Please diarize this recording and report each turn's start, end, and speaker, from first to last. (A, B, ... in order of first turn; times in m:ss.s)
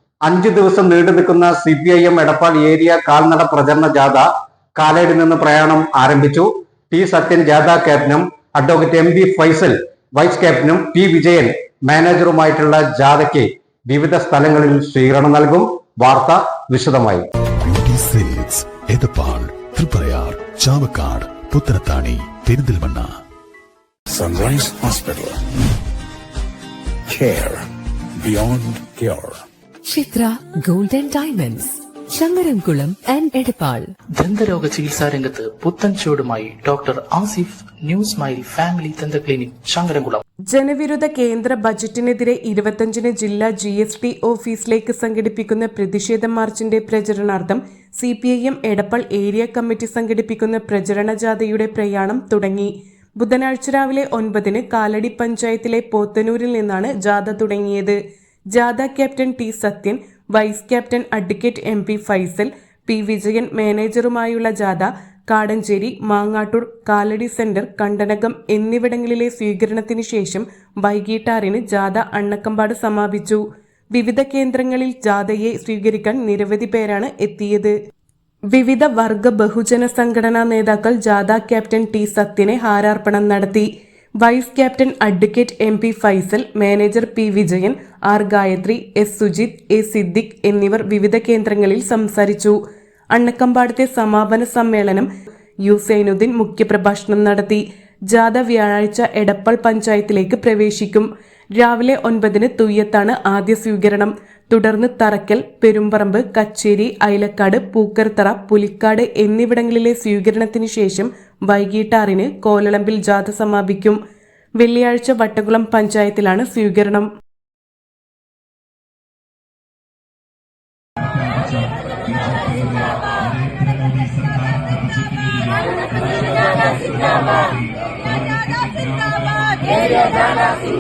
0:00.2-0:17.2 A
0:17.6-0:23.1 B
0:24.1-0:25.4 C
0:27.1-0:27.6 C
0:28.2-0:29.4 C
0:29.9-0:33.9 D
0:34.2-0:40.2 E
0:40.5-0:58.0 F
0:58.5-1:13.4 F
1:13.9-1:17.8 F
1:18.5-1:23.7 F
1:24.2-1:32.6 F
1:33.1-1:35.1 F
1:35.6-1:54.0 F
1:54.6-1:57.1 F
2:01.1-2:10.3 G